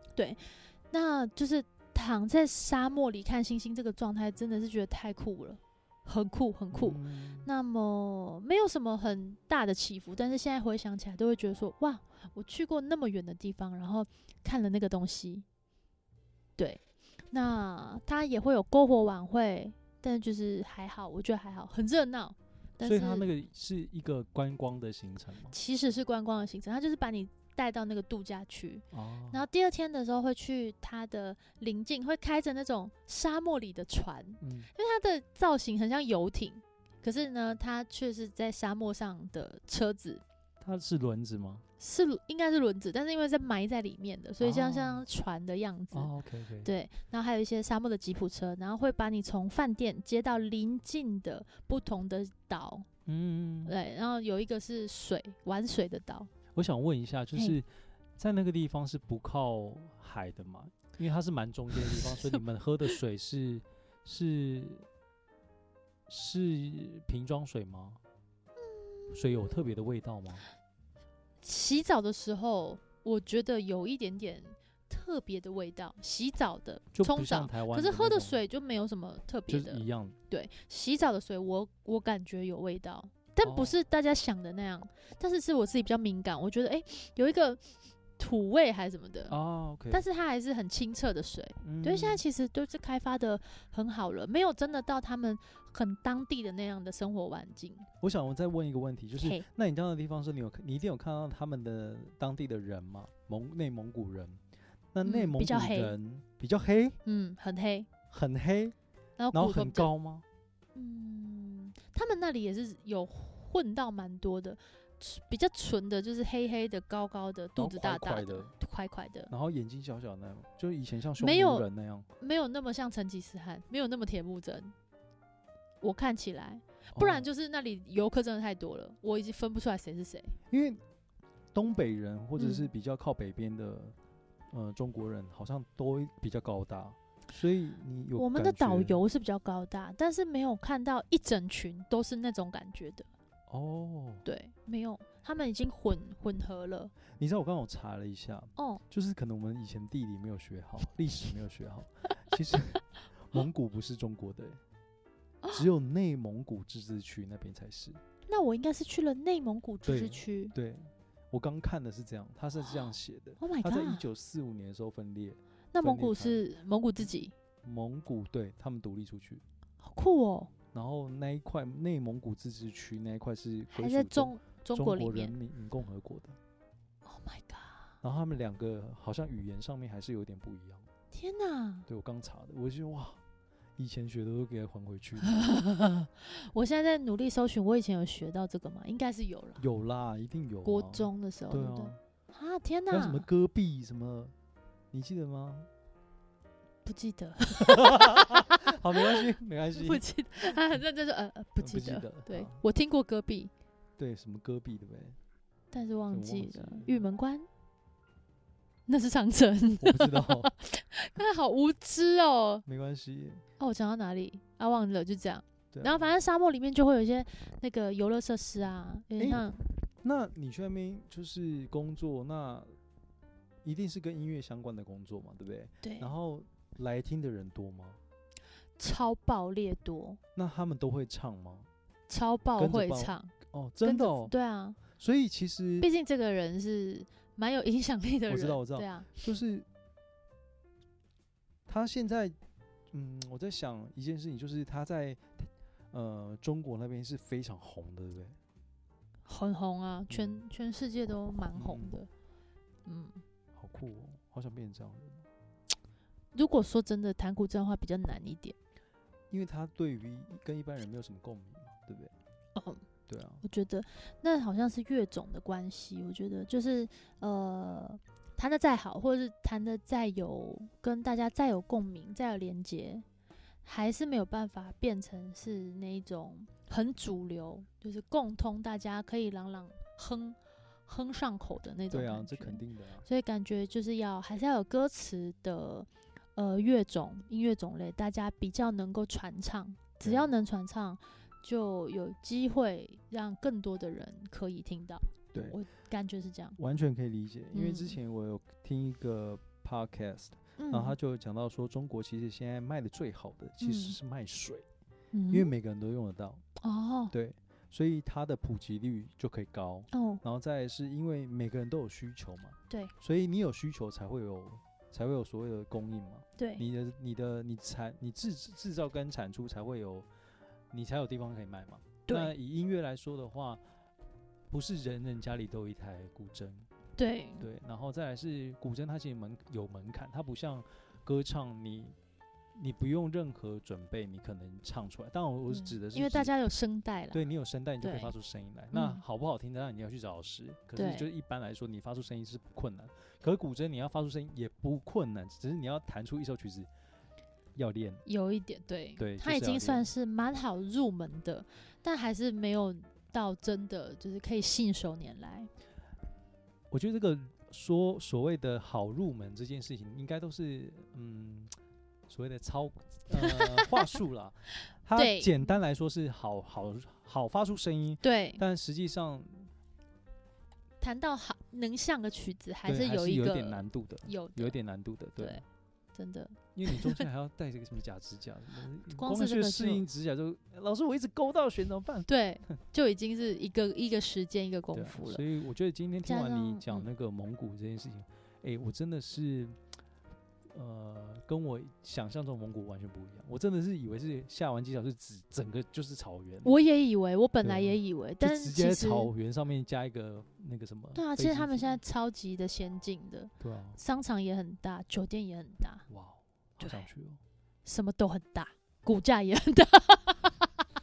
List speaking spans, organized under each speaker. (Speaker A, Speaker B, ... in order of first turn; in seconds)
Speaker A: 0.1-15.4, 17.3-23.3, 25.5-40.2, 41.8-46.1, 46.6-52.9, 53.6-56.3, 61.8-63.0, 68.6-69.5, 71.4-87.6, 88.2-89.3, 89.9-97.9, 99.2-99.4, 105.0-105.9, 107.0-107.9, 109.2-109.9, 110.7-119.3, 121.2-121.6, 122.2-124.7, 125.8-130.3, 132.4-132.7, 138.2-143.1, 144.2-146.9, 148.6-148.8, 158.3-160.5, 163.4-164.0, 165.7-167.3, 169.8-170.5, 173.7-175.3, 177.1-177.9, 181.1-181.8, 185.3-189.6, 190.6-193.2, 196.8-203.5, 205.7-207.5, 208.9-212.6, 213.6-219.6, 225.8-226.1, 228.8-230.2, 232.1-233.3, 233.8-234.8, 235.8-239.1, 249.2-252.1, 252.8-253.2, 256.3-258.5, 262.5-262.8, 263.4-273.0, 273.6-296.6, 297.5-298.0, 300.6-300.9, 303.6-304.0, 305.1-305.5, 306.6-307.1, 309.9-310.2, 316.4-316.6, 322.1-322.3, 327.0-327.5, 335.5-337.2, 337.8-338.1, 338.7-339.0, 340.8-341.1, 348.1-355.5, 363.2-363.9, 364.9-365.5, 368.0-368.4, 370.8-374.5, 375.2-375.4, 375.9-377.0, 378.9-379.8, 382.1-385.2, 386.0-386.9, 396.4-399.1, 400.9-405.9, 406.6-406.9, 407.6-410.5
Speaker B: 6.7-7.5, 22.8-25.6, 28.9-29.4, 34.4-34.7, 40.6-41.6, 44.4-45.1, 45.9-46.7, 53.0-53.7, 56.5-64.8, 66.1-68.0, 69.1-70.5, 76.9-78.4, 79.5-80.2, 83.4-83.8, 89.3-90.0, 91.6-92.2, 98.0-104.4, 104.9-107.0, 108.1-108.7, 109.3-110.2, 117.6-118.5, 119.3-122.1, 126.9-127.2, 130.5-130.8, 131.5-133.9, 134.5-139.0, 143.5-144.2, 147.2-154.6, 155.5-158.0, 159.8-166.4, 167.6-169.4, 170.7-176.4, 178.0-180.8, 181.9-183.2, 183.8-185.3, 189.6-192.0, 192.9-194.3, 194.9-195.7, 197.6-200.0, 201.6-202.6, 204.0-205.2, 206.1-207.0, 209.8-210.5, 212.7-213.4, 215.7-216.1, 219.2-219.5, 220.0-222.7, 223.6-228.0, 230.3-231.7, 232.6-234.3, 234.9-235.9, 238.3-239.7, 241.7-242.3, 242.9-248.4, 250.1-250.4, 251.5-252.0, 253.6-255.3, 259.3-262.1, 263.1-263.4, 281.9-283.1, 290.0-290.3, 295.3-295.6, 296.6-304.6, 305.3-306.4, 307.1-320.1, 320.7-323.6, 324.5-326.7, 327.4-331.9, 332.6-336.3, 337.1-346.7, 347.5-348.0, 349.0-349.9, 356.7-361.5, 362.1-369.5, 372.6-375.4, 376.5-382.1, 384.7-389.6, 390.5-396.5, 397.4-401.8, 403.4-403.8, 405.9-407.2